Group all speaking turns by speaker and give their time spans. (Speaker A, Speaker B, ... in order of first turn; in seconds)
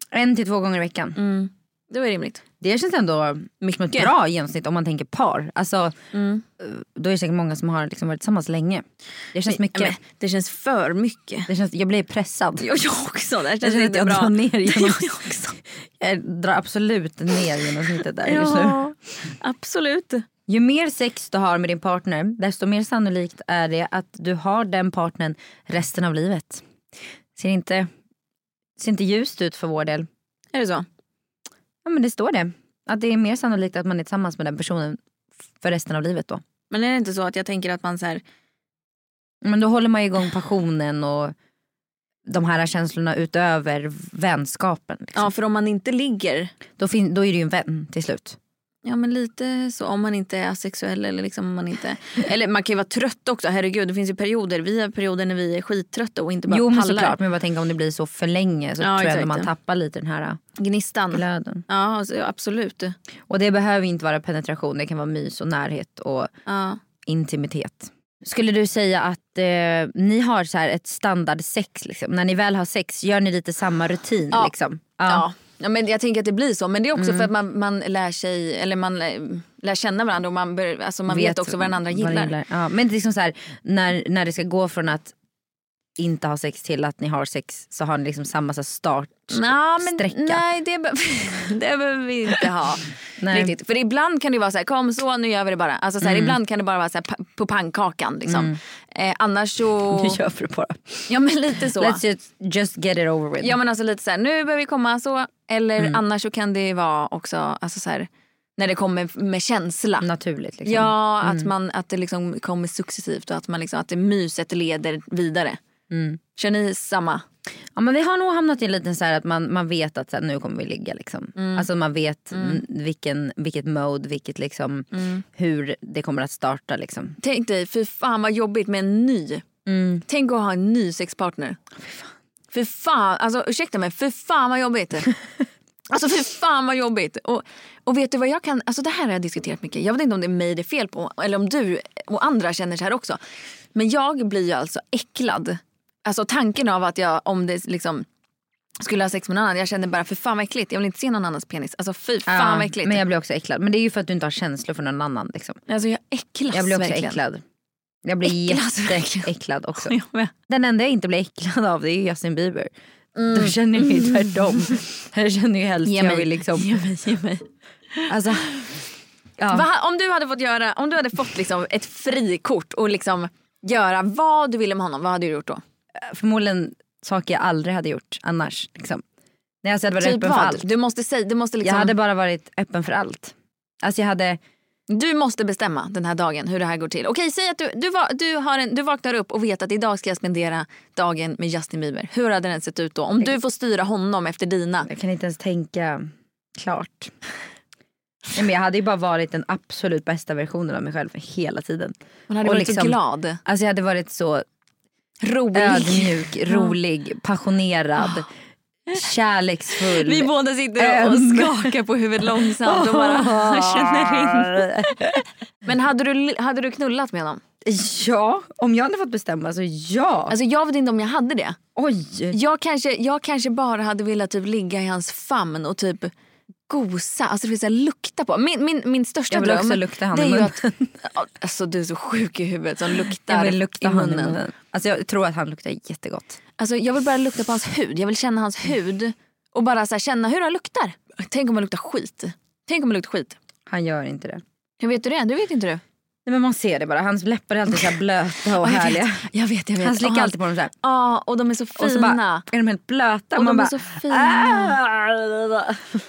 Speaker A: 0.1-1.2, 2.6-6.0, 6.6-10.0, 11.5-12.7, 13.6-15.1, 16.0-18.8, 20.5-26.6, 27.4-27.9, 28.8-30.1, 31.8-35.0, 35.6-36.4, 39.4-41.3, 42.2-45.3, 46.8-48.4, 56.5-60.4, 61.1-61.6, 63.3-66.3, 67.0-75.2, 76.9-77.3, 81.1-85.1, 86.0-90.4, 93.2-93.5, 96.0-96.3, 98.3-98.6, 99.9-101.1, 101.8-103.6, 110.0-111.5, 115.9-116.2, 117.7-127.2, 129.7-130.0, 152.3-155.6, 156.5-157.4, 158.0-159.9, 160.5-162.7, 163.3-166.8, 168.1-168.5, 169.4-169.7, 175.9-179.0, 179.6-180.7, 181.6-184.4, 194.8-197.1, 198.3-204.4, 205.5-208.3, 208.9-211.7, 212.4-215.2, 217.6-220.3, 221.8-222.4, 229.3-230.9, 233.2-236.4, 243.7-244.4, 246.2-250.7, 251.7-256.0
Speaker B: 1.1-2.4, 3.6-4.1, 6.1-6.4, 9.5-11.5, 12.6-15.6, 18.2-20.2, 30.5-30.9, 36.7-38.2, 45.1-46.5, 48.8-57.1, 58.8-59.5, 60.6-62.9, 66.5-66.8, 75.0-82.3, 89.3-100.2, 101.1-102.0, 103.4-110.1, 110.6-115.6, 116.3-117.2, 121.3-121.7, 122.3-122.6, 124.9-125.2, 127.2-129.4, 130.1-131.6, 132.5-135.1, 135.9-143.2, 143.7-148.1, 148.8-153.0, 155.7-157.2, 158.2-160.3, 163.1-164.2, 165.8-168.1, 169.5-175.6, 180.0-181.9, 184.9-194.9, 202.3-203.4, 205.2-206.7, 209.9-217.4, 220.3-221.6, 222.3-226.1, 226.7-234.4, 236.6-243.4, 244.8-245.8, 248.6-252.4, 253.3-254.8